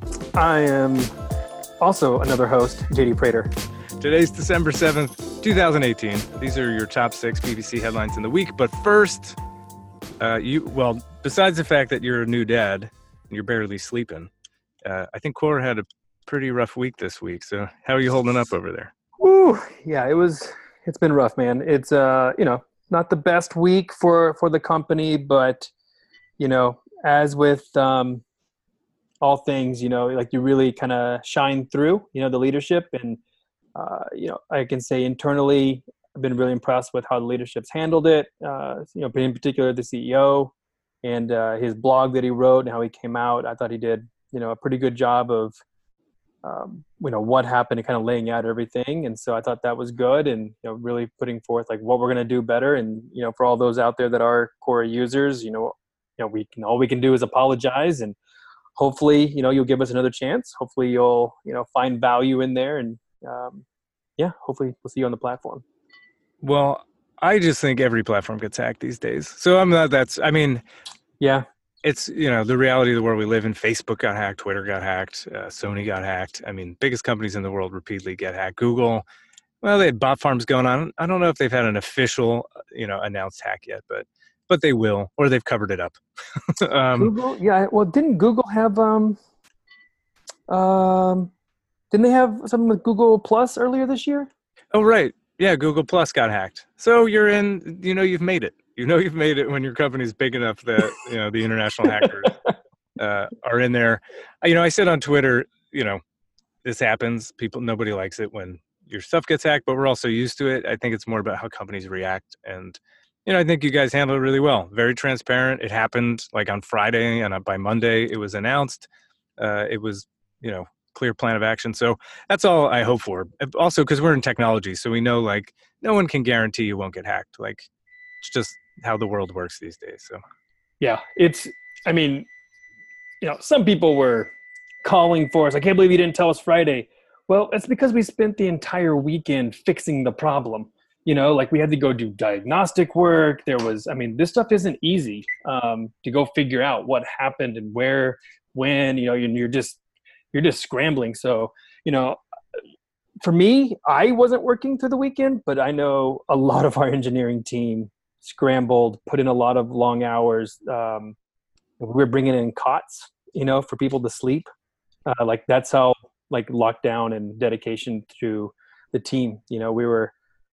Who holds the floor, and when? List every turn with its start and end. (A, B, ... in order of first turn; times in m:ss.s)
0:00.3-0:01.1 A
0:01.8-0:03.5 A
0:04.0-0:09.4 B
0:10.2-0:14.3 B
0:14.8-0:18.9 B
0:19.2-0:25.7 A
0:26.4-0:28.2 A
0:29.2-0:33.2 A
0:33.8-0:45.6 A
0:46.4-0:58.2 A
0:58.8-1:03.6 A
1:04.2-1:05.6 A
1:06.4-1:10.6 B
1:11.2-1:11.4 A
1:11.8-1:19.0 B
1:19.6-1:26.0 B
1:26.6-1:27.1 B
1:27.0-1:29.2 A
1:30.5-1:31.3 A
1:31.9-1:34.3 A
1:34.7-1:42.3 B
1:43.0-1:46.0 B
1:46.6-2:07.7 B
2:08.2-2:10.2 B
2:10.8-2:12.3 A
2:13.2-2:14.3 A
2:14.8-2:29.8 A
2:30.3-2:32.2 A
2:33.2-2:41.2 A
2:41.8-2:44.4 A
2:45.0-2:50.1 A